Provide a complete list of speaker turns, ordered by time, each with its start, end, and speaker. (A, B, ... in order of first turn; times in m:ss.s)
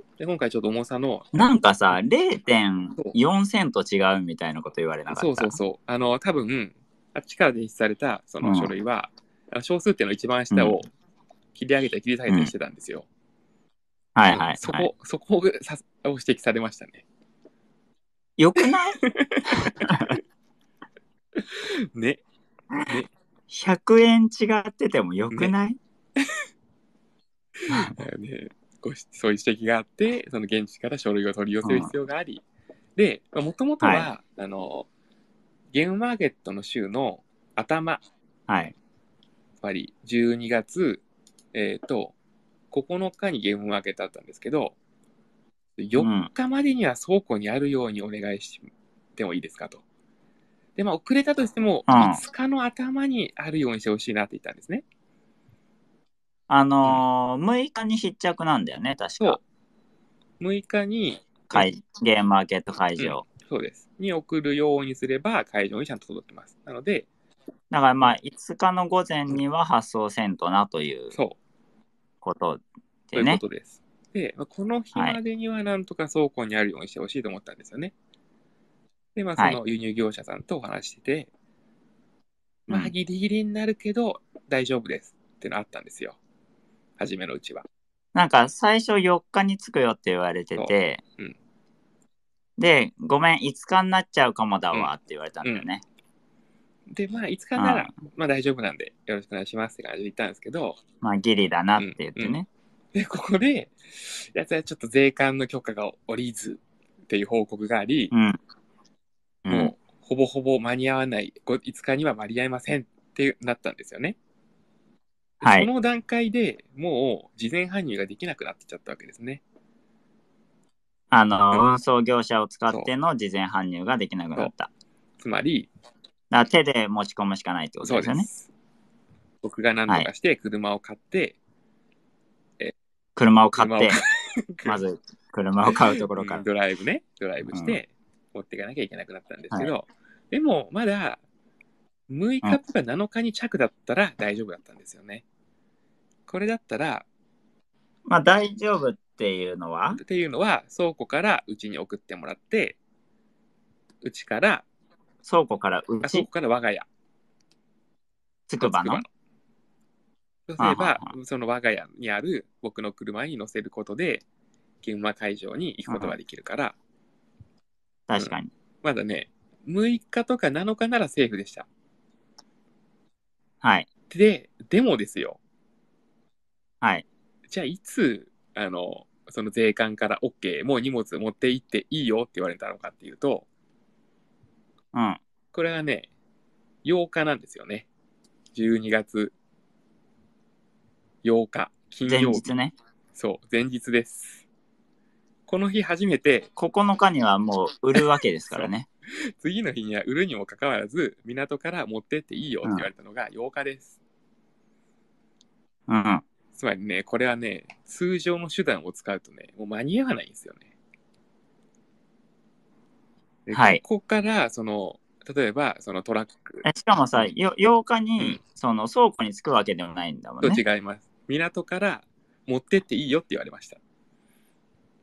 0:00.2-0:01.3 A
0:01.3-0:05.6 B
0:05.1-0:10.9 A
0:08.4-0:08.7 B
0:10.5-0:10.8 B
0:11.5-0:13.1 A
0:14.1-0:14.9 B
0:14.3-0:17.0 A
0:18.4-0:20.2 B
0:18.6-0:20.2 A
0:21.4-0:22.2 A
0:22.8-0:23.1 A
0:23.5-0:25.8 B
0:27.6-0:32.4 A
0:31.6-0:31.9 B
0:33.0-0:34.9 A
0:33.8-0:34.1 B
0:35.7-0:38.0 A
0:38.5-0:38.7 B
0:39.6-0:41.0 A
0:41.5-0:42.1 A
0:42.7-0:44.8 A
0:45.8-0:49.8 A
0:46.0-0:46.3 B
0:50.8-0:54.8 A
0:51.9-0:52.2 B
0:56.5-0:59.4 B
1:00.4-1:01.7 A
1:01.5-1:03.2 B
1:03.0-1:07.1 A
1:07.7-1:11.1 B
1:11.1-1:11.4 A
1:12.2-1:13.4 B
1:13.1-1:17.9 A
1:19.2-1:21.3 A
1:22.7-1:22.9 B
1:22.7-1:26.2 A
1:27.0-1:27.6 A
1:28.1-1:31.0 B
1:30.6-1:31.4 A
1:32.6-1:35.8 B
1:36.9-1:40.8 A
1:37.6-1:37.9 B
1:41.0-1:42.5 B
1:41.8-1:42.4 A
1:42.9-1:48.1 A
1:48.1-1:48.4 B
1:49.4-1:49.7 B
1:49.5-1:54.2 A
1:55.4-1:59.4 A
1:55.4-1:55.7 B
2:01.1-2:04.7 B
2:05.2-2:05.7 A
2:06.3-2:08.3 B
2:07.8-2:08.5 A
2:09.4-2:11.4 A
2:13.2-2:14.0 B
2:13.6-2:14.8 A
2:14.6-2:16.4 B
2:15.6-2:21.2 A
2:17.5-2:17.8 B
2:22.1-2:25.2 A
2:26.3-2:27.0 A
2:28.1-2:30.0 B
2:30.0-2:32.8 A
2:34.0-2:34.6 A
2:35.2-2:36.2 B
2:36.0-2:36.8 A
2:38.5-2:39.0 B
2:38.6-2:39.1 A
2:40.5-2:44.2 A
2:40.6-2:41.1 B
2:44.8-2:46.8 A
2:45.9-2:46.1 B
2:48.1-2:48.5 B
2:48.2-2:51.7 A
2:53.6-2:53.9 B
2:54.1-2:55.4 A
2:57.5-3:03.5 A
3:04.9-3:05.2 B
3:05.5-3:06.1 A
3:06.8-3:07.9 A
3:08.5-3:09.3 A
3:11.2-3:12.5 A
3:12.1-3:12.7 B
3:13.1-3:14.4 A
3:15.5-3:16.5 A
3:16.6-3:18.8 B
3:19.4-3:24.0 A
3:22.6-3:22.9 B
3:25.9-3:26.2 B
3:26.5-3:30.6 A
3:33.4-3:36.6 A
3:33.5-3:33.8 B
3:36.6-3:40.6 B
3:40.4-3:43.8 A